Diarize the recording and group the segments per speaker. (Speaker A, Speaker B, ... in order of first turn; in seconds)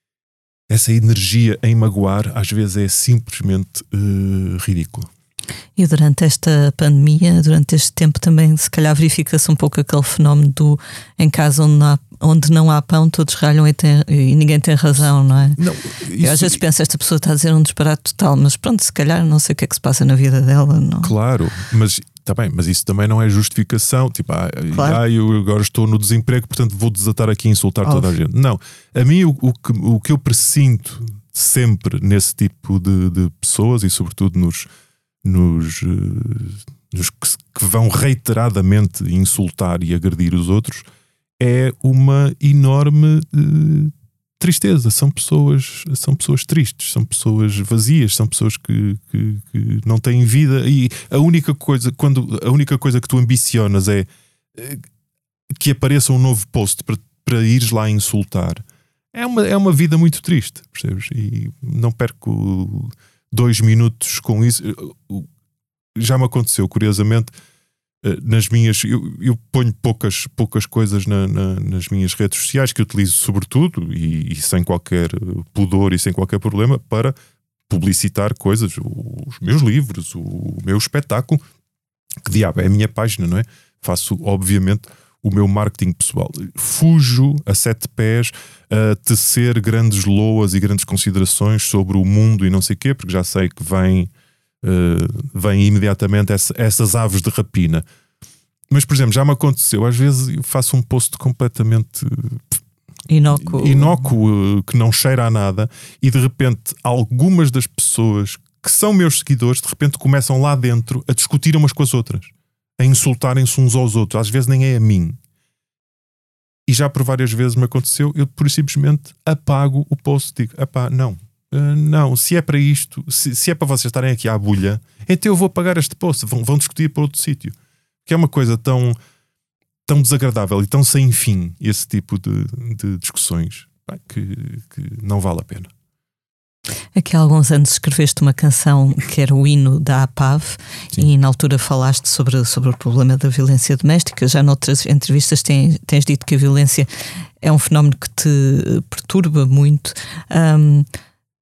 Speaker A: 0.7-5.1, 15.6-16.6, 21.0-34.7, 35.2-40.9, 41.4-54.8, 55.5-65.3, 66.0-67.3, 68.0-77.2, 77.7-81.4, 82.2-94.1, 94.6-97.8, 98.7-102.6, 103.4-115.2, 116.7-127.5, 128.1-129.0, 129.9-135.7
Speaker B: 5.8-15.6, 16.2-21.1, 24.7-25.0, 103.1-104.0, 136.9-146.9, 147.4-150.9